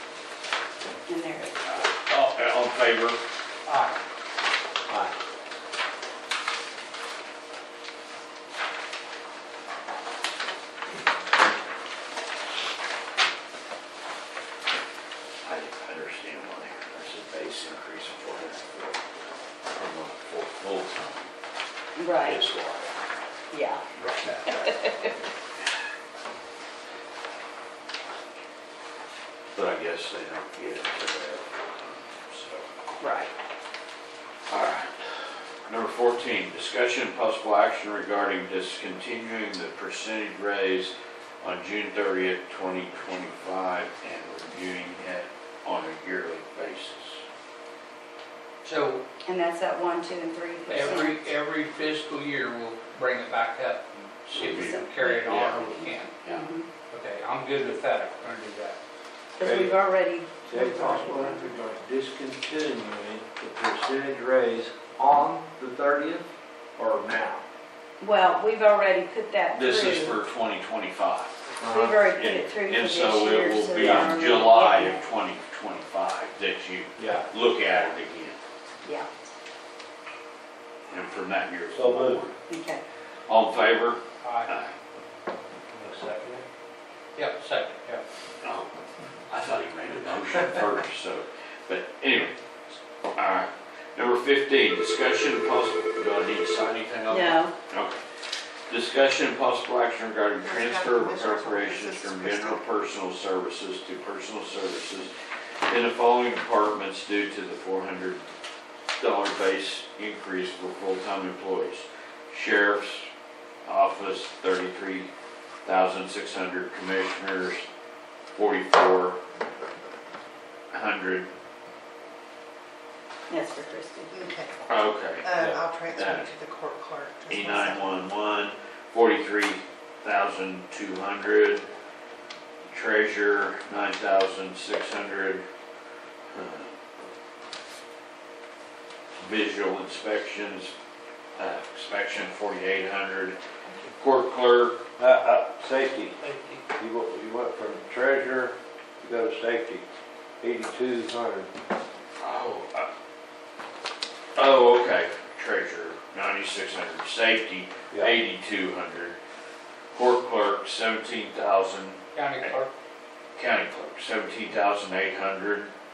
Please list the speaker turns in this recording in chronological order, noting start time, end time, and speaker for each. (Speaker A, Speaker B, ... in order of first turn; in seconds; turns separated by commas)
Speaker A: 1.1-1.7, Speaker B: 1.6-3.2, Speaker C: 3.6-4.0, Speaker B: 15.4-19.0, Speaker B: 19.7-21.3, Speaker A: 21.9-22.4, Speaker B: 22.2-23.0, Speaker A: 23.5-23.8, Speaker B: 23.9-24.8, Speaker A: 24.4-25.1, Speaker B: 29.5-32.7, Speaker A: 33.0-33.3, Speaker B: 34.5-47.2, Speaker C: 48.6-49.0, Speaker A: 49.2-51.2, Speaker C: 50.7-56.1, Speaker B: 54.3-56.5, Speaker A: 54.4-56.7, Speaker C: 56.9-58.8, Speaker A: 59.4-61.4, Speaker D: 59.4-59.8, Speaker D: 60.5-67.4, Speaker A: 68.0-70.2, Speaker B: 69.5-71.3, Speaker D: 71.6-72.0, Speaker A: 71.6-75.0, Speaker B: 72.1-78.4, Speaker D: 73.7-74.2, Speaker D: 77.0-77.3, Speaker A: 78.8-79.1, Speaker B: 80.9-82.3, Speaker D: 81.7-82.2, Speaker A: 82.5-82.8, Speaker B: 83.3-84.7, Speaker C: 84.2-84.5, Speaker D: 85.7-86.4, Speaker C: 87.2-88.0, Speaker B: 88.4-88.7, Speaker B: 89.3-92.3, Speaker B: 93.2-98.0, Speaker A: 97.1-97.5, Speaker B: 98.7-105.1, Speaker E: 100.4-102.6, Speaker B: 105.7-108.2, Speaker B: 109.0-113.1, Speaker B: 113.6-115.1, Speaker B: 115.6-117.6, Speaker B: 118.3-119.2, Speaker B: 120.7-121.3, Speaker A: 123.3-124.2, Speaker E: 124.1-124.6, Speaker B: 124.7-126.3, Speaker E: 125.2-127.9, Speaker D: 125.3-125.6, Speaker B: 127.3-131.7, Speaker B: 132.6-135.4, Speaker B: 136.3-136.7, Speaker B: 139.2-140.7, Speaker B: 141.3-143.4, Speaker B: 143.9-144.8, Speaker D: 145.0-146.2, Speaker C: 146.2-146.6, Speaker D: 146.8-149.8, Speaker D: 150.4-151.5, Speaker B: 152.2-152.9, Speaker B: 154.3-159.2, Speaker B: 159.9-162.6, Speaker C: 162.1-162.7, Speaker B: 163.3-165.7